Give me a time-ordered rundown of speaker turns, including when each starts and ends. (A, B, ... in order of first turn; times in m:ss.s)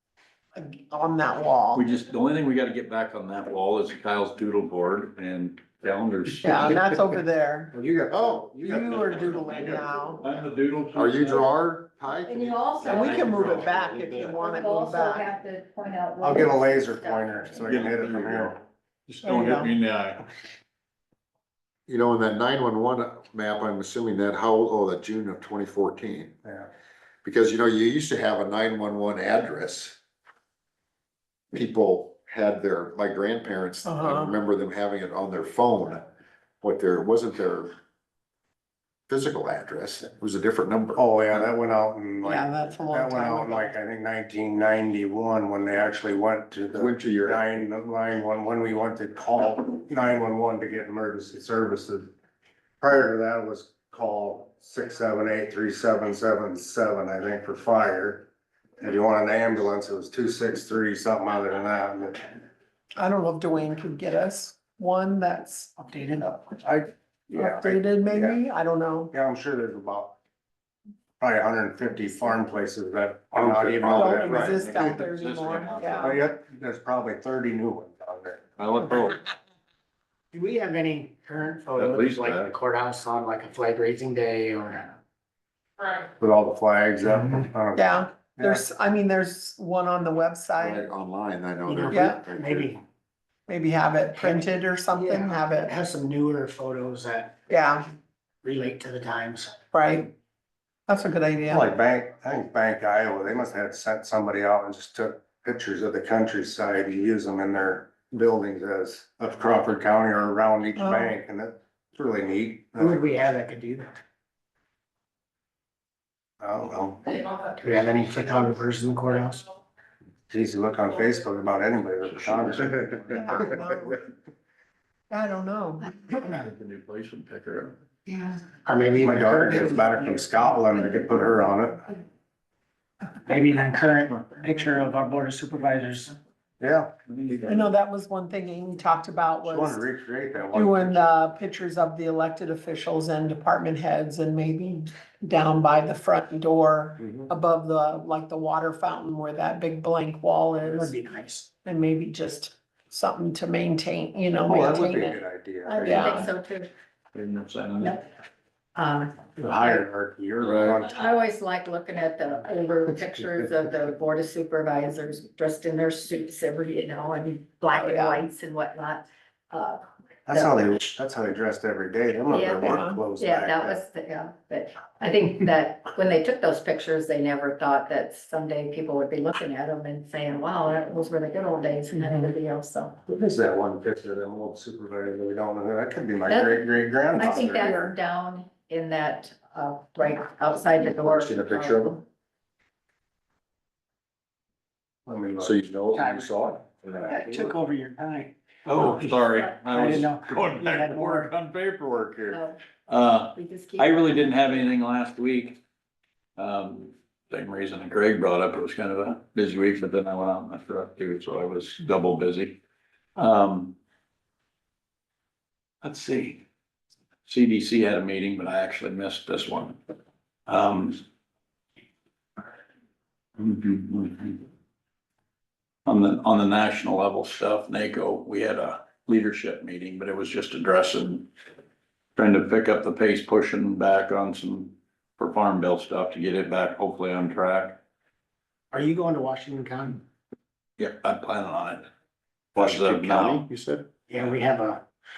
0:00.6-0:01.8 A
0:01.7-0:06.8 B
0:06.4-0:07.7 A
0:07.7-0:10.0 C
0:08.1-0:08.5 D
0:08.6-0:10.2 A
0:08.9-0:11.5 B
0:10.9-0:13.7 D
0:12.2-0:13.4 E
0:12.8-0:14.0 B
0:12.8-0:15.3 A
0:14.2-0:17.9 E
0:16.2-0:18.6 C
0:17.6-0:20.3 B
0:19.2-0:19.7 A
0:21.9-0:26.3 D
0:26.4-0:26.7 C
0:27.2-0:30.0 D
0:31.5-0:36.0 D
0:33.8-0:34.4 A
0:36.6-0:37.7 D
0:39.1-0:41.0 D
0:41.0-0:52.1 C
0:42.2-0:43.8 A
0:46.7-0:47.4 D
0:52.8-0:58.3 C
0:58.8-1:02.4 C
1:03.0-1:05.8 A
1:05.8-1:06.3 F
1:06.4-1:08.4 C
1:07.3-1:09.1 A
1:09.1-1:10.2 C
1:11.2-1:14.8 C
1:13.3-1:14.8 D
1:13.9-1:16.2 A
1:14.6-1:16.2 B
1:15.9-1:18.4 C
1:18.6-1:19.2 B
1:20.3-1:25.0 F
1:21.7-1:22.5 B
1:26.2-1:28.6 C
1:27.7-1:30.9 A
1:30.6-1:32.7 D
1:31.6-1:32.8 F
1:31.9-1:32.2 A
1:33.5-1:35.7 A
1:34.1-1:37.4 F
1:37.5-1:37.8 A
1:38.4-1:39.6 F
1:39.7-1:40.1 A
1:40.9-1:41.7 A
1:41.5-1:53.1 C
1:50.8-1:51.1 A
1:52.8-1:54.0 F
1:56.4-1:57.4 C
1:57.6-1:59.4 F
2:00.3-2:03.6 C
2:02.1-2:03.2 B
2:03.1-2:04.0 A
2:05.1-2:05.9 A
2:06.1-2:07.8 B
2:08.0-2:08.4 E
2:08.6-2:09.7 F
2:09.0-2:11.8 C
2:13.2-2:16.1 F
2:16.6-2:17.6 C
2:17.1-2:17.5 B
2:17.4-2:19.8 A
2:19.4-2:21.2 C
2:20.5-2:30.9 A
2:27.0-2:27.3 C
2:30.6-2:31.5 F
2:31.6-2:36.3 A
2:34.4-2:36.0 C
2:35.8-2:36.3 B
2:35.8-2:36.7 E
2:37.1-2:38.0 B
2:37.8-2:38.0 E
2:38.7-2:39.8 E
2:39.4-2:41.2 C
2:40.4-2:40.7 D
2:40.8-2:50.6 E
2:47.7-2:48.2 A
2:50.3-2:53.8 C
2:52.3-3:03.0 E
2:52.6-2:53.0 A
3:03.1-3:07.7 C
3:06.3-3:11.9 E
3:07.6-3:07.9 A
3:10.9-3:12.0 D
3:15.0-3:15.5 C
3:15.4-3:17.5 D
3:15.9-3:16.4 F
3:17.0-3:21.3 F
3:18.7-3:25.6 B
3:22.3-3:22.6 E
3:23.3-3:24.7 E
3:26.4-3:32.6 B
3:33.2-3:33.8 B
3:35.8-3:36.4 B
3:37.2-3:39.8 B
3:40.5-3:41.0 B
3:43.4-3:44.4 B
3:45.8-3:51.3 B
3:52.2-3:57.8 B
3:58.7-4:00.0 F
4:00.8-4:01.9 B
4:02.5-4:03.9 D
4:02.6-4:03.5 B
4:04.1-4:04.8 F